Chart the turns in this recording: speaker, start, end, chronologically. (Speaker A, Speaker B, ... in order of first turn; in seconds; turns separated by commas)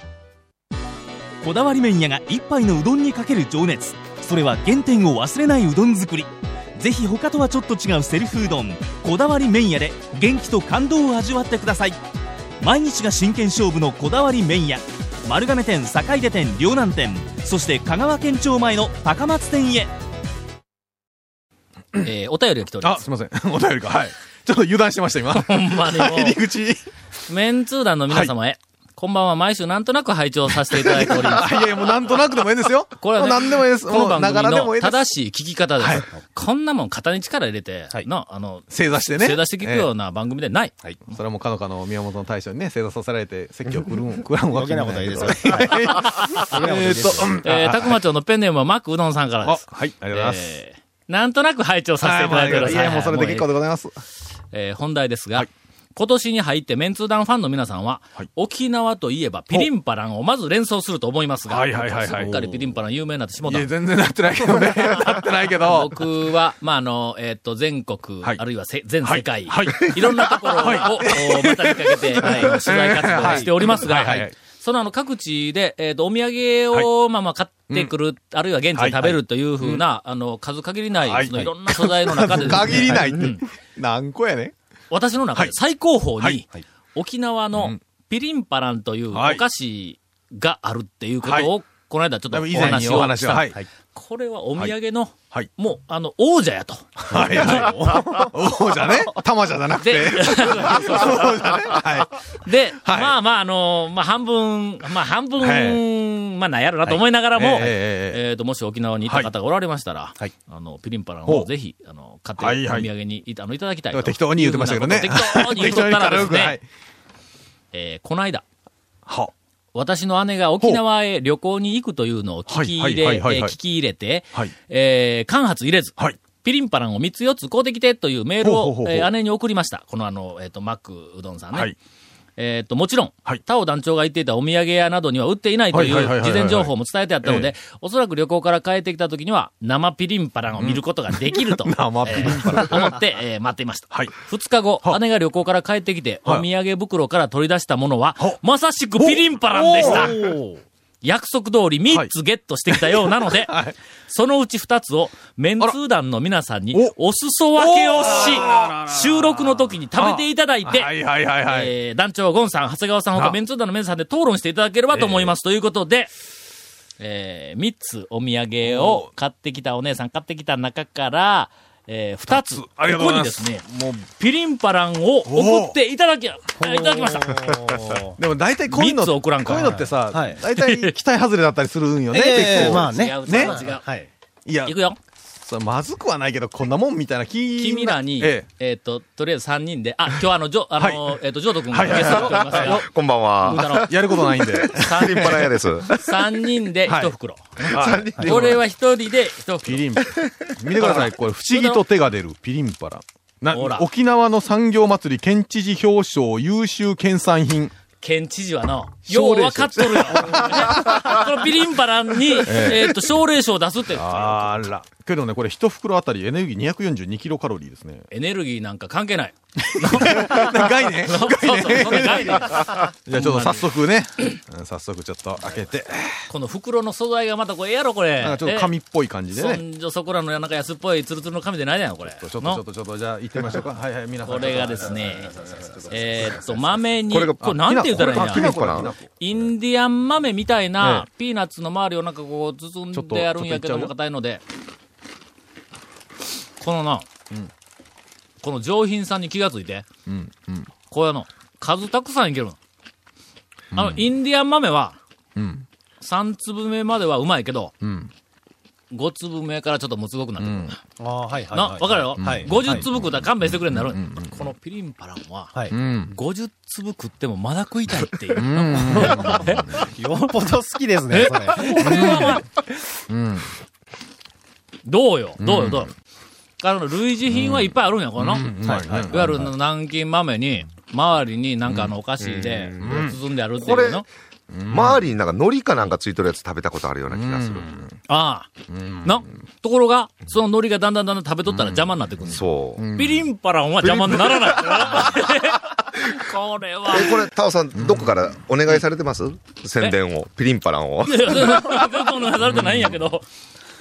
Speaker A: 1.4-12.0, Speaker A: 12.6-19.9, Speaker B: 22.0-23.0, Speaker C: 22.8-26.8, Speaker B: 25.3-26.4, Speaker B: 27.3-31.6, Speaker C: 30.7-35.1, Speaker B: 33.0-40.7, Speaker C: 35.8-36.1, Speaker C: 38.7-39.9, Speaker C: 41.1-48.0, Speaker D: 44.5-47.4, Speaker B: 46.0-46.6, Speaker B: 47.2-53.5, Speaker C: 49.4-50.6, Speaker C: 52.0-53.9, Speaker B: 54.5-63.7, Speaker C: 61.5-62.5, Speaker C: 63.5-66.0, Speaker B: 64.6-83.5, Speaker C: 69.0-74.3, Speaker C: 78.8-79.8, Speaker C: 81.1-84.5, Speaker B: 84.9-97.6, Speaker C: 87.5-87.8, Speaker C: 89.1-89.4, Speaker C: 91.2-91.5, Speaker C: 92.3-93.6, Speaker C: 97.1-102.1, Speaker D: 97.2-98.0, Speaker B: 99.8-101.8, Speaker B: 102.4-116.6, Speaker C: 102.8-103.2, Speaker C: 105.4-105.8, Speaker C: 107.3-108.2, Speaker C: 109.1-109.3, Speaker C: 112.4-112.9, Speaker C: 113.9-116.6, Speaker B: 117.7-118.4, Speaker C: 119.1-119.3, Speaker B: 119.8-131.7, Speaker C: 122.5-123.5, Speaker C: 128.4-129.1, Speaker B: 132.4-150.3, Speaker C: 135.7-136.7, Speaker C: 137.2-137.5, Speaker C: 140.6-143.0, Speaker C: 149.0-150.3, Speaker D: 149.6-150.6, Speaker B: 151.0-166.1, Speaker C: 152.7-153.8, Speaker C: 157.6-159.4, Speaker C: 160.0-161.7, Speaker C: 164.9-165.3, Speaker B: 167.0-177.8, Speaker C: 168.6-169.1, Speaker C: 172.3-173.6, Speaker C: 175.3-175.8, Speaker D: 176.6-178.1, Speaker C: 178.1-183.7, Speaker B: 178.7-179.9, Speaker D: 179.5-180.4, Speaker B: 180.5-180.9, Speaker D: 182.1-184.1, Speaker B: 182.2-183.9, Speaker C: 184.4-184.8, Speaker B: 184.7-185.0, Speaker C: 185.4-188.5, Speaker B: 187.6-192.9, Speaker C: 190.8-191.2, Speaker C: 191.7-192.8, Speaker E: 191.9-196.0, Speaker B: 193.4-193.9, Speaker C: 193.5-195.5, Speaker B: 194.7-199.9, Speaker C: 196.9-197.1, Speaker E: 197.6-198.6, Speaker C: 197.7-198.6, Speaker C: 199.6-207.7, Speaker B: 200.8-201.8, Speaker B: 203.5-203.9, Speaker B: 208.0-214.4, Speaker C: 209.1-211.2, Speaker C: 212.3-213.0, Speaker C: 213.9-218.1, Speaker B: 218.1-223.7, Speaker C: 219.6-226.3, Speaker B: 226.3-228.7, Speaker C: 228.2-229.6, Speaker B: 229.3-232.6, Speaker C: 232.1-235.2, Speaker B: 234.2-244.4, Speaker E: 237.1-238.9, Speaker C: 237.4-239.4, Speaker C: 240.8-241.1, Speaker C: 242.9-243.9, Speaker B: 246.6-247.1, Speaker B: 248.4-249.9, Speaker C: 250.1-250.7, Speaker B: 250.9-252.6, Speaker C: 253.7-254.1, Speaker B: 253.7-255.0, Speaker C: 255.4-255.7, Speaker B: 256.0-257.7, Speaker C: 257.8-258.1, Speaker B: 258.9-260.8, Speaker C: 260.4-260.7, Speaker D: 261.0-262.8, Speaker B: 261.5-269.8, Speaker C: 262.2-264.4, Speaker C: 265.7-266.1, Speaker C: 268.3-269.7, Speaker D: 268.9-272.3, Speaker B: 271.1-272.4, Speaker C: 271.8-272.4, Speaker C: 273.1-273.5, Speaker B: 274.9-275.9, Speaker C: 275.4-275.9, Speaker B: 276.6-284.1, Speaker C: 277.3-279.5, Speaker D: 278.7-279.2, Speaker E: 282.2-283.1, Speaker C: 282.8-283.2, Speaker E: 283.6-284.1, Speaker C: 284.5-285.0, Speaker E: 284.7-287.7, Speaker C: 287.1-288.0, Speaker B: 288.1-288.5, Speaker C: 288.7-289.3, Speaker B: 289.0-297.2, Speaker E: 292.3-292.8, Speaker C: 292.8-293.3, Speaker E: 296.9-301.7, Speaker C: 297.8-298.1, Speaker B: 301.1-303.2, Speaker C: 302.5-302.9